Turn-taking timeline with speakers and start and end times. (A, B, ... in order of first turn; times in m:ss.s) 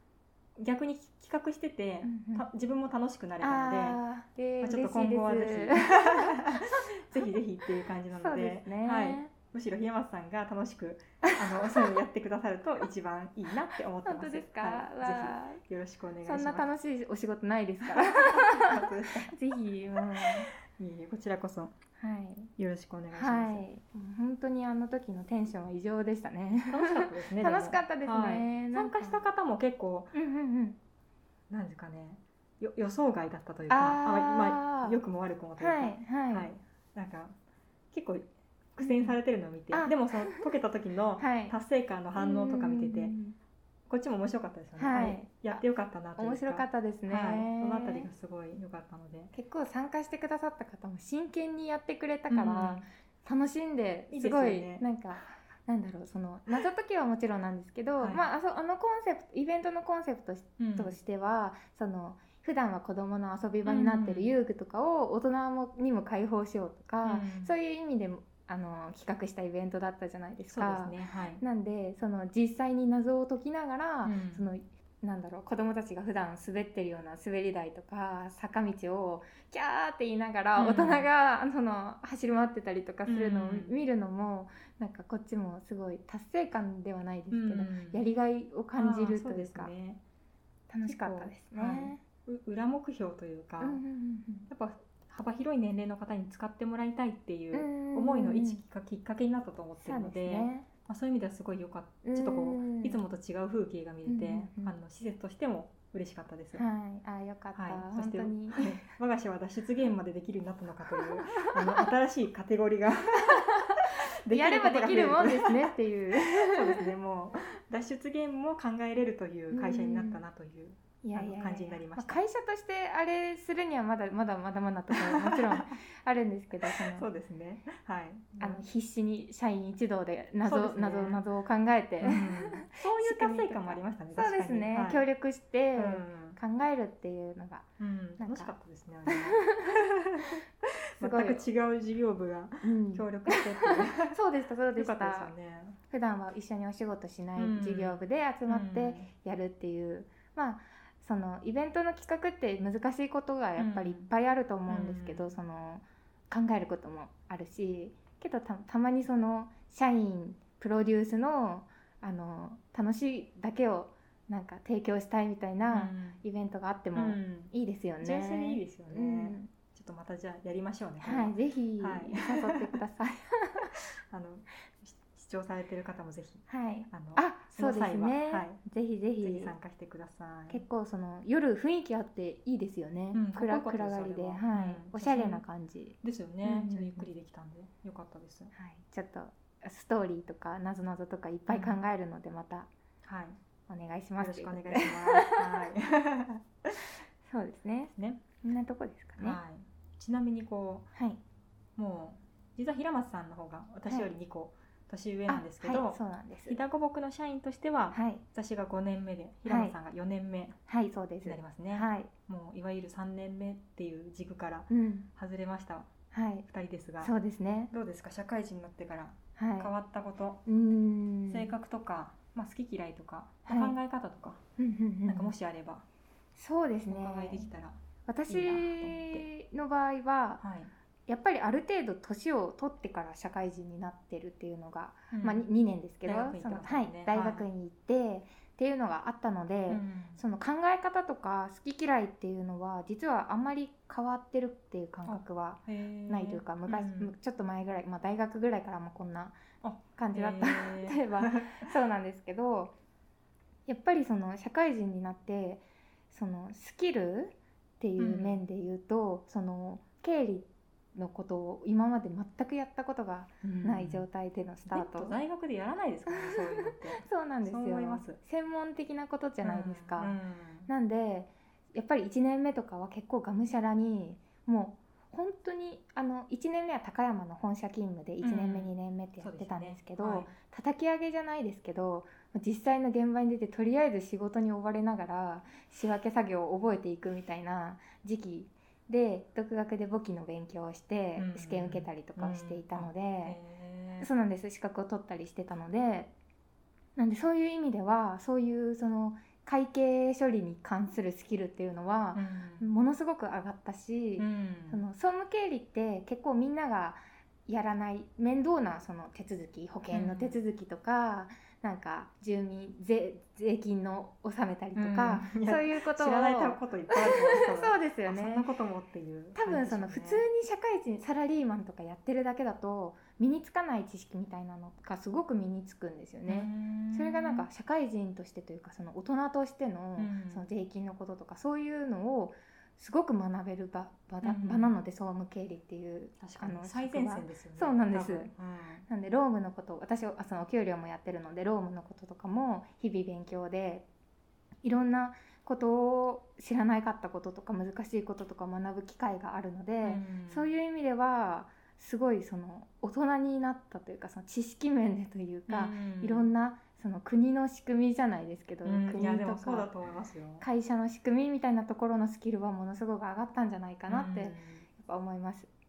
0:00.6-0:04.0 A
0:02.0-0:02.5 B
0:03.4-0:06.6 B
0:04.6-0:16.7 A
0:08.1-0:09.3 B
0:11.2-0:11.6 B
0:14.0-0:15.6 B
0:16.2-0:20.5 B
0:17.8-0:19.3 A
0:20.2-0:21.8 A
0:22.0-0:22.5 B
0:22.6-0:23.6 A
0:23.1-0:29.2 B
0:26.7-0:30.1 A
0:30.1-0:30.8 B
0:31.5-0:37.4 A
0:33.7-0:35.0 B
0:35.6-0:36.5 B
0:37.9-0:43.2 A
0:38.8-0:39.2 B
0:39.7-0:40.5 B
0:41.2-0:41.6 B
0:42.2-0:43.4 B
0:43.9-0:49.3 A
0:44.8-0:45.6 B
0:46.2-0:48.1 B
0:49.3-1:29.7 B
0:52.3-0:52.9 A
0:54.1-0:54.9 A
0:58.0-0:58.3 A
1:00.6-1:01.0 A
1:03.6-1:04.3 A
1:07.0-1:07.5 A
1:10.5-1:11.4 A
1:14.0-1:14.4 A
1:20.6-1:21.1 A
1:23.1-1:23.7 A
1:27.3-1:28.0 A
1:28.8-1:30.0 A
1:30.7-1:32.0 B
1:30.8-1:33.8 A
1:33.6-1:34.5 B
1:34.5-1:46.6 A
1:37.5-1:38.6 B
1:39.8-1:40.7 B
1:42.0-1:43.0 B
1:44.1-1:44.8 B
1:46.5-1:48.8 B
1:47.6-2:02.2 A
1:51.0-1:51.8 B
1:54.3-1:56.9 B
1:59.5-2:00.2 B
2:01.0-2:07.1 B
2:04.9-2:05.7 A
2:06.7-2:08.6 A
2:08.4-2:17.7 B
2:10.4-2:11.2 A
2:12.0-2:15.1 A
2:15.8-2:16.4 A
2:17.8-2:20.4 A
2:18.2-2:18.5 B
2:19.1-2:19.7 B
2:21.0-2:24.2 A
2:21.0-2:21.4 B
2:22.6-2:25.3 B
2:24.8-2:25.8 A
2:25.9-2:49.5 B
2:27.4-2:29.1 A
2:33.6-2:34.1 A
2:34.7-2:35.3 A
2:45.7-2:46.2 A
2:47.0-2:52.8 A
2:51.0-2:53.7 B
2:54.1-2:58.6 A
2:56.5-2:59.6 B
2:59.2-3:00.6 A
3:00.5-3:07.1 B
3:03.1-3:05.4 A
3:06.0-3:08.5 A
3:08.5-3:12.7 B
3:11.5-3:11.8 A
3:13.0-3:13.4 A
3:13.7-3:15.7 B
3:14.2-3:16.5 A
3:17.3-3:19.4 B
3:18.0-3:18.2 A
3:19.2-3:20.9 A
3:20.9-3:21.2 B
3:21.8-3:30.6 A
3:25.3-3:26.6 B
3:27.9-3:28.2 B
3:29.5-3:29.8 B
3:30.7-3:32.1 B
3:31.2-3:35.9 A
3:34.7-3:35.1 B
3:36.1-3:36.5 B
3:36.5-3:37.1 A
3:37.0-3:37.7 B
3:37.7-3:40.4 A
3:39.4-3:39.7 B
3:40.5-3:41.5 B
3:41.3-3:44.4 A
3:43.5-3:43.8 B
3:44.6-3:45.4 B
3:45.1-3:45.9 A
3:46.4-3:47.5 B
3:46.8-3:49.3 A
3:48.1-3:50.4 B
3:50.4-3:50.7 A
3:51.1-4:09.4 B
3:55.1-3:55.5 A
3:56.0-3:57.5 A
3:59.7-4:00.2 A
4:05.0-4:07.1 A
4:09.6-4:11.7 A
4:10.0-4:12.7 B
4:13.7-4:25.2 B
4:18.0-4:18.4 A
4:23.4-4:24.0 A
4:24.7-4:28.2 A
4:26.1-4:30.2 B
4:29.4-4:30.7 A
4:30.7-4:53.4 B
4:38.2-4:40.3 A
4:51.2-4:54.1 A
4:54.0-4:56.1 B
4:57.0-5:18.5 B
5:02.1-5:02.7 A
5:04.2-5:04.8 A
5:09.9-5:10.4 A
5:14.8-5:20.2 A
5:19.4-5:38.3 B
5:26.3-5:27.5 A
5:30.0-5:30.5 A
5:34.2-5:34.7 A
5:36.2-5:38.9 A
5:38.9-5:43.9 B
5:44.6-5:59.7 B
5:49.8-5:50.5 A
5:55.5-5:56.3 A
5:58.6-6:00.5 A
6:00.4-6:05.5 B
6:03.9-6:04.7 A